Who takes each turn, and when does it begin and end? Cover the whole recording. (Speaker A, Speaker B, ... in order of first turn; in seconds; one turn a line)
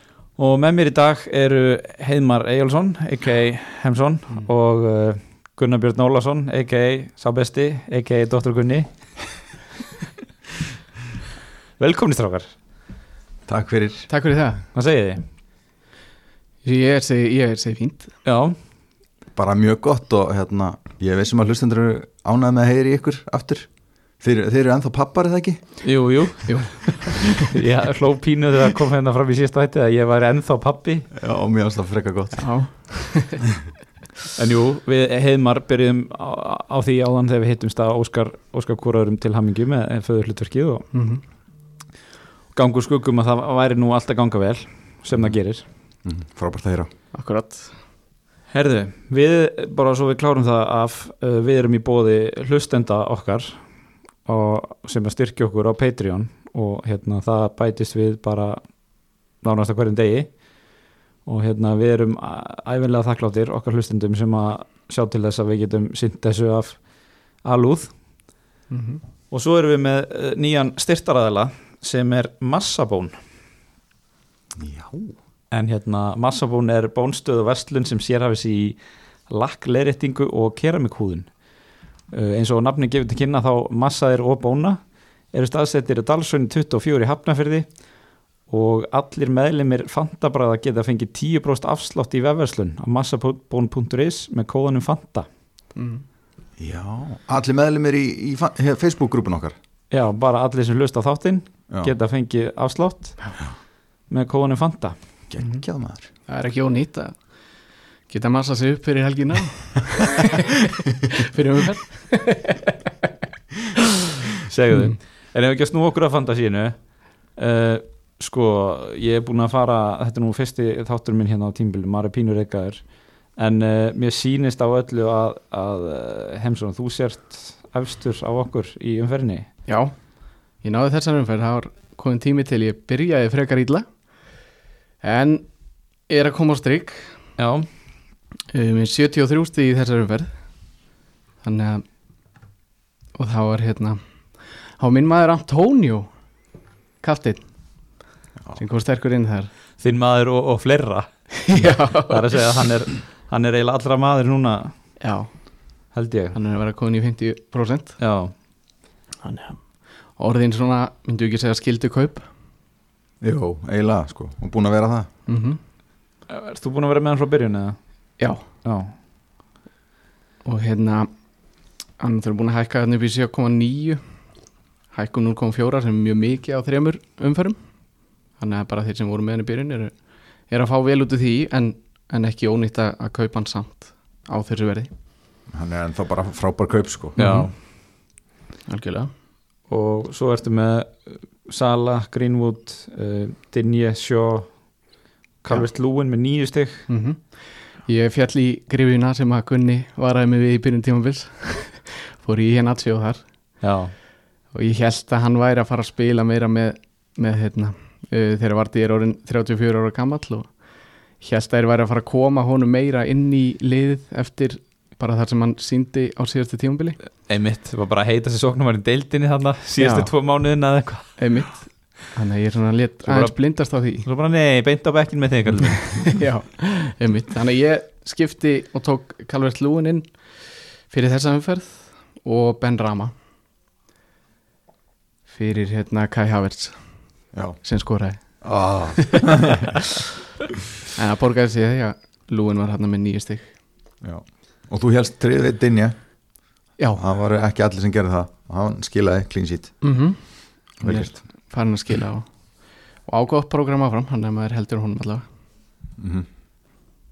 Speaker A: 0.4-8.9
Speaker A: 11.8-12.6
Speaker B: 13.5-14.1
Speaker C: 14.1-14.7
Speaker A: 14.7-15.3
Speaker C: 16.6-18.1
Speaker A: 18.2-18.6
Speaker B: 19.4-25.9
Speaker A: 25.8-31.1
Speaker C: 26.5-27.3
Speaker B: 31.1-32.5
Speaker C: 32.4-33.4
Speaker A: 34.4-40.9
Speaker C: 40.9-41.2
Speaker A: 42.5-45.7
Speaker B: 46.0-46.9
Speaker C: 47.1-47.8
Speaker A: 48.5-53.6
Speaker A: 54.2-58.8
Speaker A: 59.4-60.4
Speaker A: 61.2-66.9
Speaker A: 67.4-68.0
Speaker C: 68.7-69.0
Speaker A: 69.3-73.2
Speaker B: 74.6-75.2
Speaker A: 75.5-81.3
Speaker A: 82.1-87.9
Speaker A: 88.5-95.3
Speaker C: 95.8-96.0
Speaker B: 96.6-99.5
Speaker A: 99.9-103.5
Speaker A: 104.1-105.0
Speaker B: 105.3-106.1
Speaker C: 106.3-107.3
Speaker C: 108.1-112.8
Speaker A: 114.5-129.5
Speaker C: 129.7-133.9
Speaker C: 135.0-135.5
Speaker C: 136.1-137.2
Speaker A: 137.4-137.7
Speaker C: 138.5-140.7
Speaker C: 141.4-141.8
Speaker C: 143.2-146.1
Speaker C: 147.0-147.4
Speaker C: 148.6-149.5
Speaker A: 149.8-154.9
Speaker C: 151.5-152.4
Speaker C: 155.0-155.7
Speaker A: 155.9-156.4
Speaker C: 156.3-158.0
Speaker A: 158.0-158.3
Speaker C: 159.2-162.2
Speaker B: 163.2-165.1
Speaker C: 165.3-165.6
Speaker A: 166.3-167.8
Speaker C: 168.2-168.4
Speaker A: 168.6-168.9
Speaker C: 170.4-171.1
Speaker C: 172.0-174.0
Speaker C: 174.9-184.9
Speaker B: 185.5-187.2
Speaker A: 187.2-187.6
Speaker C: 187.2-187.6
Speaker C: 188.7-189.1
Speaker A: 189.7-194.8
Speaker A: 195.4-196.9
Speaker C: 196.9-203.6
Speaker A: 203.6-203.9
Speaker C: 204.5-217.0
Speaker A: 217.2-221.2
Speaker C: 219.8-220.1
Speaker C: 221.2-224.1
Speaker A: 223.0-226.2
Speaker C: 226.1-233.1
Speaker C: 235.3-239.2
Speaker B: 237.3-237.6
Speaker B: 238.4-239.7
Speaker C: 240.9-243.5
Speaker B: 244.0-246.1
Speaker B: 246.9-249.8
Speaker C: 249.8-255.2
Speaker B: 250.8-251.2
Speaker B: 256.0-256.3